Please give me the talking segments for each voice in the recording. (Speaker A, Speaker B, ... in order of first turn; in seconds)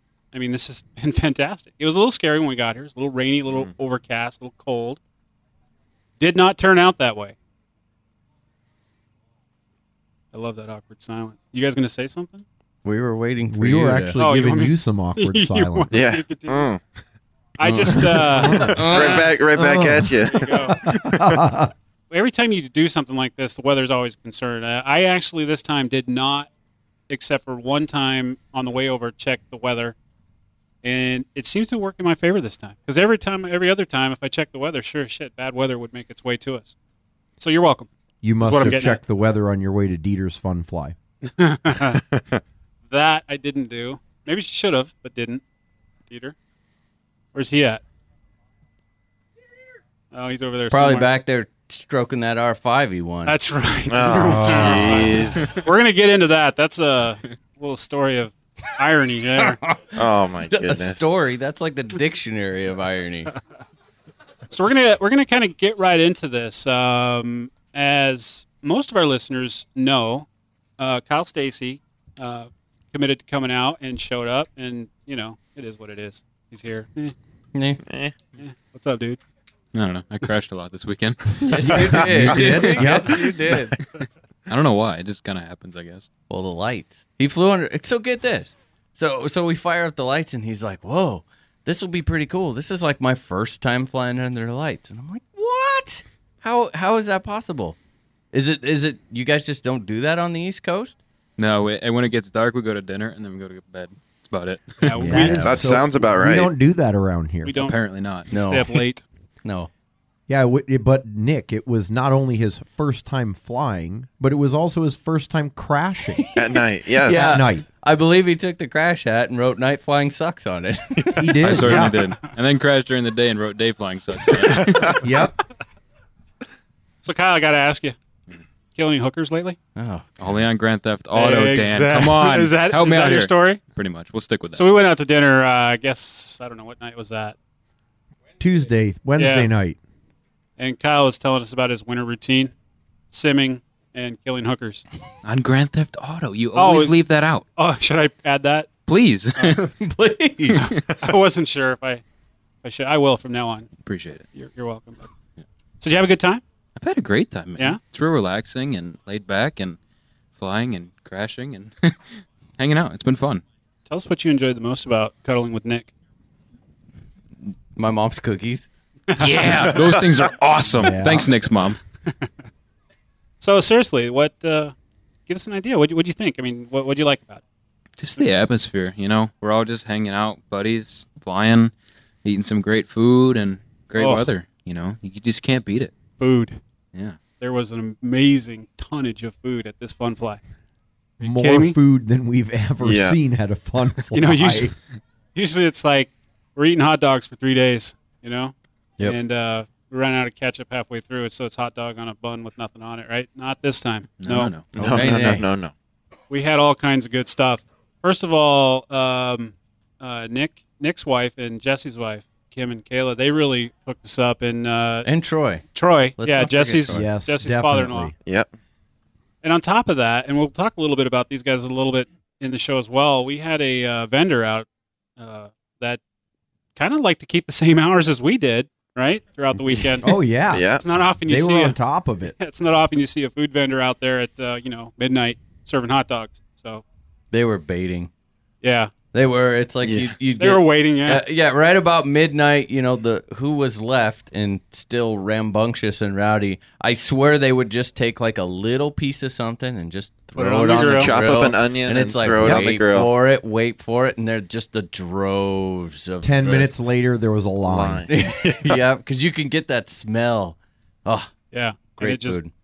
Speaker A: 0.3-5.0, 6.2-7.3, 10.3-12.4, 14.2-16.7, 17.6-19.3, 20.2-20.8, 22.1-26.5, 27.1-29.9, 30.8-36.8, 37.4-37.9, 38.4-39.0, 41.2-42.0, 42.9-45.4, 46.1-46.4, 47.3-47.8, 50.1-51.1, 53.2-59.6, 64.5-70.3, 70.8-77.1, 78.4-79.2, 104.8-105.5, 107.4-107.8, 108.3-109.0, 127.0-128.0, 128.8-129.6, 131.1-133.6, 134.5-137.3, 139.2-139.5, 140.6-142.5, 143.1-144.8, 146.5-147.0, 147.6-148.7, 149.3-149.6, 150.5-152.0, 152.6-153.7, 154.3-155.1, 155.8-156.4, 163.9-165.9, 173.4-174.7, 175.3-177.4, 184.0-184.3, 186.2-186.6, 187.4-190.4, 191.2-191.8, 194.1-194.7, 195.3-204.5, 206.3-215.1, 215.7-218.1, 219.4-224.7, 225.2-226.0, 226.8-230.1, 230.7-231.8, 232.4-236.8, 238.6-238.9, 240.4-241.2, 250.4-251.1, 261.5-262.4
Speaker B: 12.8-14.1, 17.6-19.3, 50.7-53.4, 55.1-55.5, 59.4-59.9, 60.5-63.3, 77.5-77.8, 81.4-83.7, 86.3-97.8, 98.3-101.0, 105.0-105.6, 108.3-108.8, 109.4-109.7, 117.0-121.6, 129.8-130.1, 149.8-150.7, 167.8-168.7, 204.8-205.4, 215.0-217.1, 237.3-238.1, 239.1-256.7, 258.1-261.3, 261.9-262.5
Speaker C: 13.5-15.9, 17.9-20.2, 20.8-21.7, 38.2-40.9, 54.2-54.9, 81.6-83.4, 105.0-107.7, 110.3-116.2, 117.0-117.6, 121.2-122.0, 124.9-125.4, 138.4-139.8, 170.8-171.3, 191.2-194.7, 216.9-218.1, 230.0-230.7, 231.2-232.3, 256.2-258.1
Speaker D: 15.9-16.8, 18.8-20.6, 42.0-42.4, 53.9-55.5, 60.0-61.1, 77.8-78.1, 105.2-106.5, 116.3-117.4, 192.8-193.2, 204.8-205.7, 218.2-218.5, 230.5-230.8, 239.8-240.1, 250.6-253.1, 257.6-258.8
Speaker E: 79.7-83.0, 84.5-86.1, 101.4-104.9, 107.6-108.3, 121.4-125.0, 130.2-134.7, 145.2-147.4, 148.9-149.7, 153.8-154.2, 156.8-159.8, 160.4-162.0, 162.6-163.4, 169.2-171.8, 178.0-181.7, 182.2-185.9, 204.2-204.7